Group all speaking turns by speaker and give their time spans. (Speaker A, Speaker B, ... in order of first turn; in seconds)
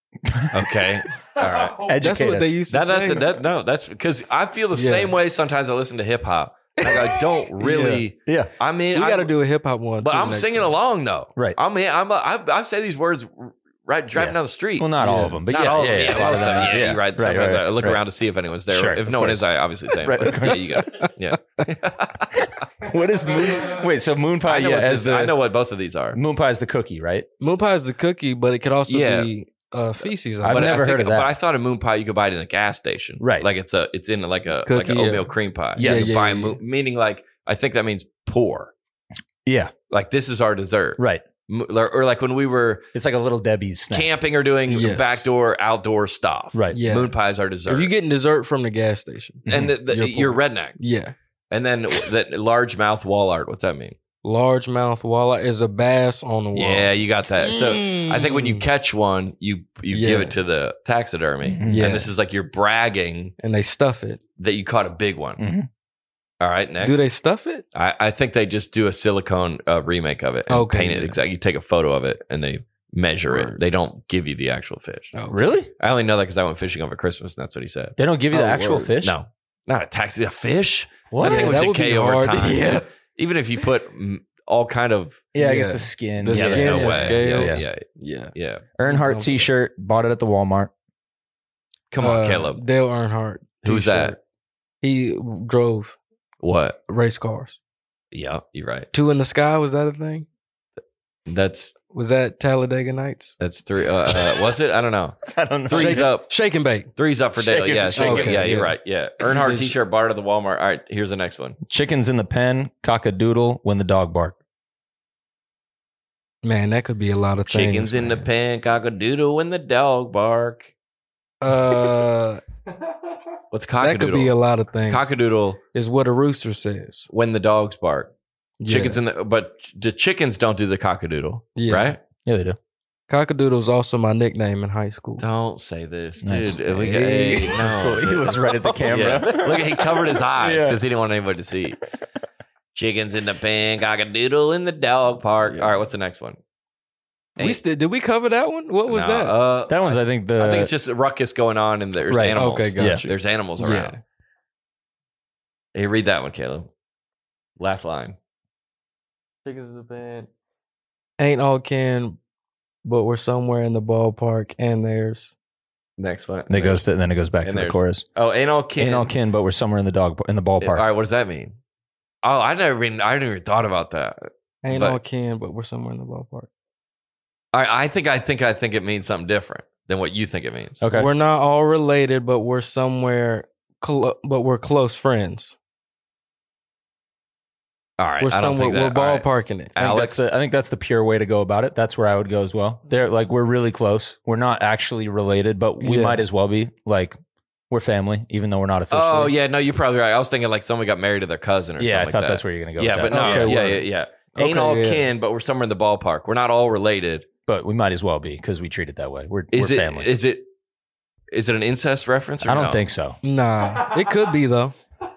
Speaker A: 0.2-0.5, 1.9-2.6, 14.1-18.0, 18.7-19.4, 20.0-20.7, 22.5-25.4, 26.1-27.3, 30.4-31.3, 33.2-33.5, 35.8-36.1, 39.5-39.7, 41.0-41.2, 42.9-44.1, 49.5-49.7, 61.5-61.9, 65.4-65.7, 75.3-75.7, 78.0-79.2, 81.1-81.6, 85.3-87.7, 88.8-90.7, 105.3-106.1, 107.4-108.6, 111.7-114.3, 132.2-132.6, 136.2-140.8, 149.7-150.7, 152.1-153.0, 166.5-168.0, 168.8-170.8, 180.8-181.1, 190.0-197.2, 197.7-199.3, 201.8-203.8, 207.5-210.1, 212.4-213.2
Speaker B: 0.5-1.9, 2.7-9.3, 10.0-14.9, 15.5-22.6, 24.4-26.2, 28.9-29.3, 30.4-38.7, 39.9-42.9, 43.9-47.9, 49.5-50.8, 51.5-54.0, 56.5-63.3, 64.4-65.4, 66.4-67.0, 67.7-75.1, 75.8-78.0, 79.0-85.3, 86.3-87.8, 88.3-88.7, 91.9-92.6, 93.6-94.1, 96.4-96.8, 98.1-98.9, 101.3-101.8, 103.4-106.4, 107.0-111.6, 117.5-120.7, 123.5-125.6, 127.1-128.1, 128.7-132.0, 135.2-141.8, 142.7-146.4, 148.9-153.9, 155.7-156.7, 157.6-158.2, 166.0-166.8, 167.4-169.1, 170.6-171.6, 172.2-175.0, 177.5-180.9, 188.0-190.3, 198.9-207.3, 209.5-210.4, 211.3-212.8
Speaker C: 1.9-3.3, 4.7-5.1, 6.8-8.0, 8.9-10.7, 15.0-15.4, 20.9-21.1, 27.4-30.8, 34.6-36.6, 44.7-45.3, 46.7-47.1, 47.6-51.1, 54.2-58.6, 59.9-60.4, 61.6-62.1, 63.4-64.2, 66.8-67.6, 70.5-71.2, 73.3-73.5, 75.1-75.5, 78.3-78.9, 81.2-82.8, 85.4-88.3, 88.8-89.5, 92.0-94.2, 94.8-96.0, 96.9-97.6, 98.9-100.2, 101.9-103.3, 105.7-106.9, 108.0-108.7, 109.3-109.7, 116.4-118.3, 121.4-122.4, 123.8-125.1, 125.7-127.1, 128.6-129.0, 131.6-131.9, 133.1-135.2, 136.9-137.5, 145.4-145.7, 147.4-149.3, 152.3-154.0, 159.4-160.3, 161.2-162.2, 162.8-165.3, 174.6-176.5, 180.9-185.6, 188.2-190.2, 195.8-196.2, 203.1-203.8, 204.3-205.1, 213.2-214.7